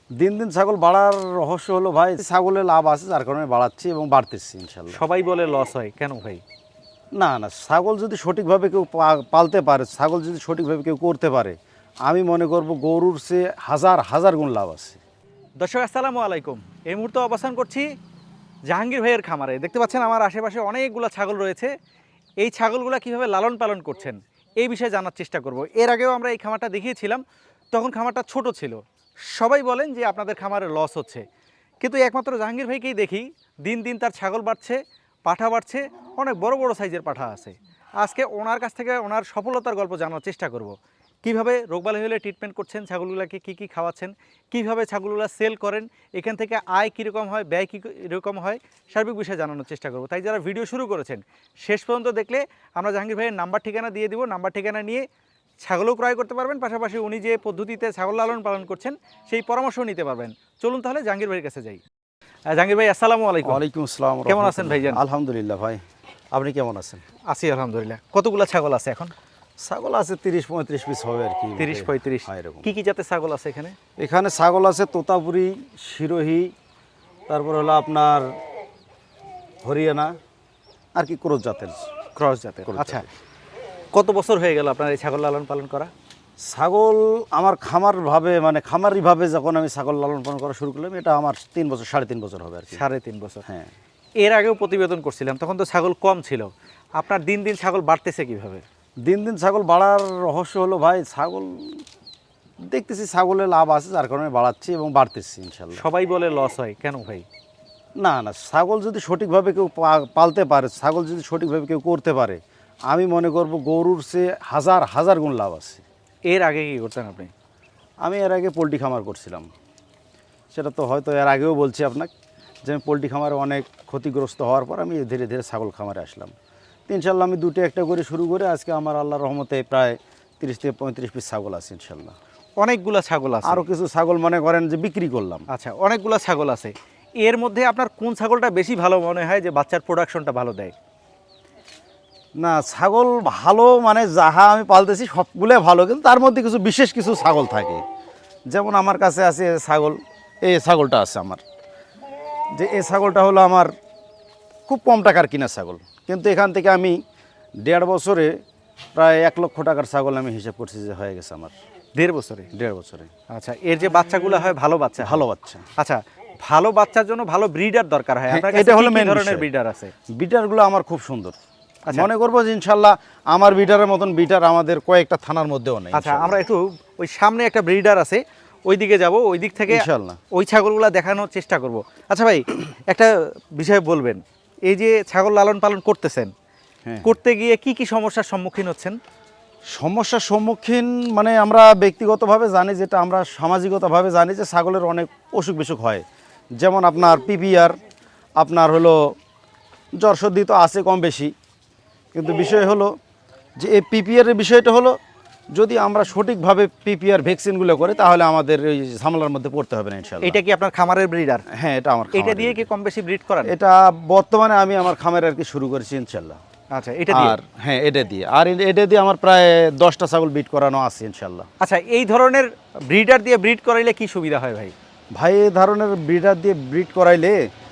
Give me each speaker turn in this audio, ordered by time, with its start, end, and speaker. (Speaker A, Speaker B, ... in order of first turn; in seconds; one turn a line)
Speaker A: 0.2-5.0
Speaker B: 4.9-6.4
Speaker A: 7.2-15.0
Speaker B: 15.6-17.9
Speaker B: 18.7-21.7
Speaker B: 22.4-31.2
Speaker B: 31.8-55.0
Speaker B: 55.6-61.8
Speaker B: 62.5-63.6
Speaker A: 63.4-65.8
Speaker B: 64.3-65.0
Speaker A: 66.3-67.0
Speaker B: 67.3-69.1
Speaker A: 69.6-72.7
Speaker B: 71.6-73.8
Speaker A: 74.0-76.5
Speaker A: 77.3-78.3
Speaker A: 79.6-80.1
Speaker A: 80.9-81.9
Speaker B: 82.2-83.0
Speaker A: 82.7-83.1
Speaker B: 83.9-85.9
Speaker A: 86.5-92.8
Speaker B: 92.7-93.4
Speaker A: 93.5-93.7
Speaker B: 94.2-98.6
Speaker A: 99.0-101.8
Speaker A: 102.7-105.9
Speaker B: 105.7-107.2
Speaker A: 108.0-115.8
Speaker B: 116.3-117.3
Speaker A: 118.0-119.5
Speaker A: 120.5-122.1
Speaker A: 122.6-126.3
Speaker A: 126.9-132.2
Speaker B: 132.6-133.6
Speaker A: 133.4-135.4
Speaker B: 135.5-140.7
Speaker A: 142.4-147.8
Speaker A: 148.5-151.4
Speaker A: 152.5-153.7
Speaker A: 154.7-157.0
Speaker A: 157.6-158.3
Speaker A: 158.9-161.6
Speaker B: 161.9-162.5
Speaker A: 162.5-163.1
Speaker B: 163.3-165.2
Speaker A: 165.0-165.7
Speaker B: 165.8-169.9
Speaker A: 168.3-169.4
Speaker A: 170.2-171.3
Speaker A: 171.9-176.4
Speaker B: 175.9-186.3
Speaker A: 179.7-180.2
Speaker B: 187.0-189.0
Speaker A: 189.7-196.0
Speaker A: 196.6-197.8
Speaker A: 198.4-199.1
Speaker A: 200.0-201.3
Speaker A: 202.1-202.9
Speaker A: 203.6-204.9
Speaker A: 205.5-210.4
Speaker B: 210.2-211.4
Speaker A: 211.5-212.7
Speaker B: 212.1-213.5
Speaker A: 213.4-216.4
Speaker B: 216.7-217.4
Speaker A: 217.1-221.5
Speaker B: 221.6-224.7
Speaker A: 225.1-227.4